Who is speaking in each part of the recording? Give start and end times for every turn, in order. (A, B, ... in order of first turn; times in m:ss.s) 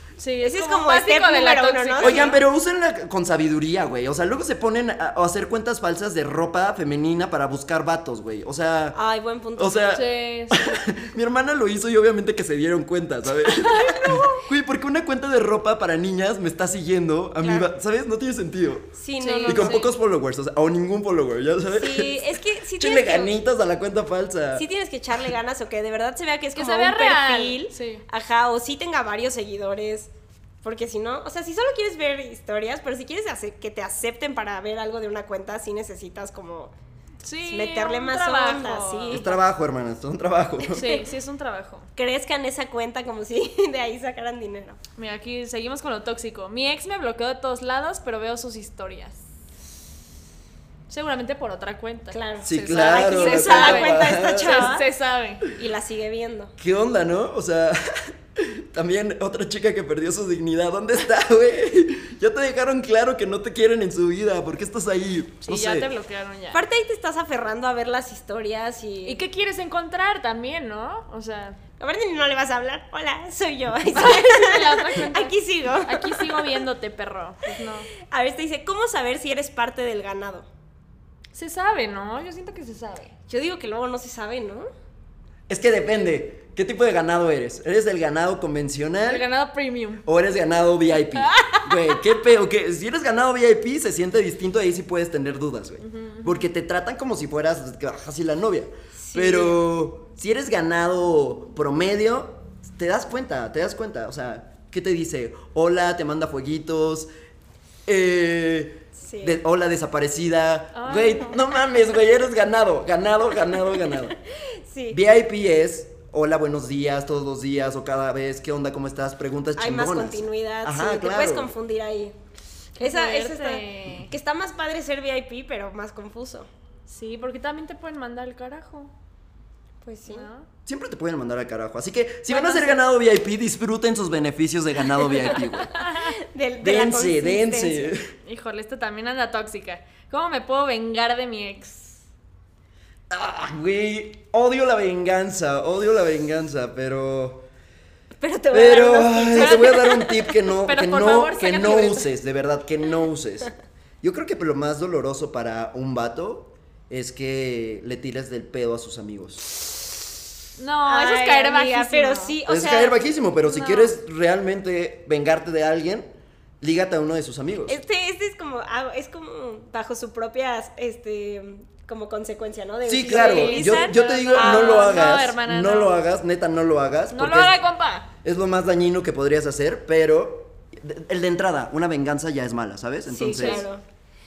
0:00.2-0:02.3 A
0:00.4-0:02.4 B
0:02.0-0:09.0 C
0:08.9-0:09.9 B
0:09.6-0:18.9 C
0:09.9-0:10.7 A
0:13.6-0:14.4 A
0:17.4-0:17.6 B
0:18.9-0:19.9 B
0:19.2-0:19.9 A
0:19.4-0:24.6 C
0:21.7-0:23.3 B
0:24.5-0:30.1 B
0:26.5-0:28.0 A
0:30.6-0:36.7 B
0:37.2-0:39.2 A
0:37.5-0:39.4 B
0:39.1-0:40.8 C
0:40.6-0:41.1 B
0:40.7-0:41.9 A
0:42.0-0:44.8 B
0:45.0-0:49.2 A
0:50.9-0:55.4 A
0:52.1-0:54.9 B
0:52.4-0:54.7 C
0:55.5-0:56.5 B
0:56.6-1:05.9 C
1:05.4-1:06.6 A
1:06.5-1:09.2 B
1:09.0-1:11.6 A
1:11.8-1:16.6 B
1:13.9-1:17.9 A
1:17.9-1:20.5 B
1:21.3-1:23.1 A
1:23.3-1:24.7 B
1:25.5-1:29.2 C
1:29.1-1:30.0 A
1:30.0-1:47.1 C
1:31.2-1:32.0 A
1:35.8-1:36.5 A
1:38.9-1:39.6 B
1:47.8-1:54.2 C
1:48.9-1:49.4 B
1:50.7-1:51.4 A
1:54.0-1:55.0 B
1:54.9-2:01.5 C
1:59.6-2:02.2 B
2:02.8-2:06.5 B
2:02.8-2:04.1 A
2:06.9-2:08.9 A
2:09.8-2:10.3 B
2:10.1-2:10.5 A
2:10.6-2:15.7 C
2:12.3-2:12.8 B
2:15.8-2:16.1 A
2:15.9-2:17.9 B
2:16.6-2:18.1 C
2:18.2-2:22.0 A
2:23.1-2:27.4 C
2:28.2-2:30.2 B
2:28.5-2:39.4 C
2:29.3-2:32.1 A
2:40.6-2:42.4 A
2:40.8-2:43.0 B
2:42.5-2:46.1 C
2:43.5-2:43.9 B
2:46.6-2:47.8 C
2:47.6-2:55.0 B
2:52.8-2:57.6 C
2:53.0-2:56.0 A
2:57.1-2:58.1 A
2:58.2-3:03.6 C
3:03.0-3:03.8 B
3:03.3-3:03.6 A